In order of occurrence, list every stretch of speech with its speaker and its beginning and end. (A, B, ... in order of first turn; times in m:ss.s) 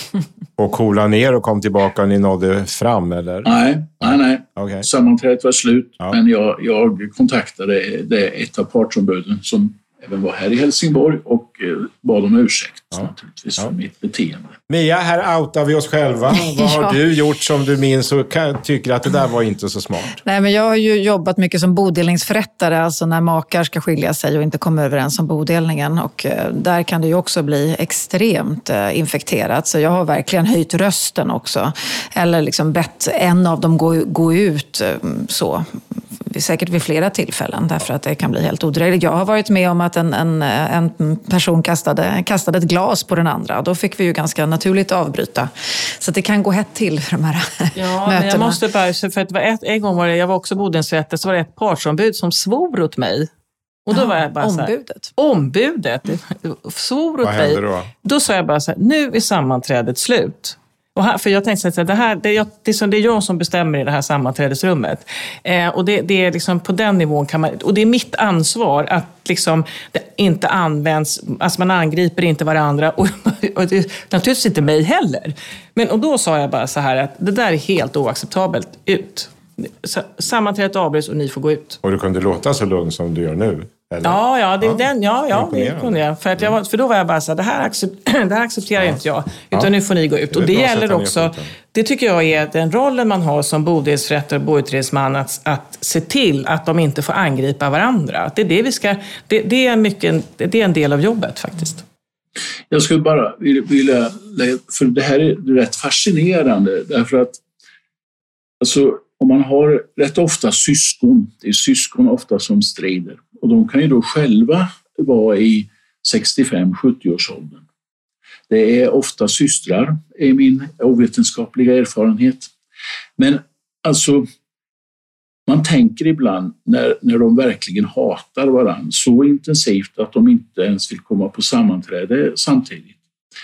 0:00.6-0:03.5 A
0:03.4-0:14.5 B
0:04.0-0:04.9 A
0:14.7-0:20.2 A
0:16.4-0:17.0 C
0:20.2-0:35.7 C
0:36.3-0:48.6 C
0:47.8-0:53.3 D
0:53.9-1:21.8 D
0:53.9-0:55.1 C
0:57.2-0:57.9 A
1:21.8-1:26.6 A
1:24.0-1:41.8 D
1:30.3-1:31.5 A
1:42.7-1:47.4 B
1:48.6-1:57.6 B
1:58.5-2:02.5 B
2:03.2-2:04.3 B
2:05.5-2:13.0 B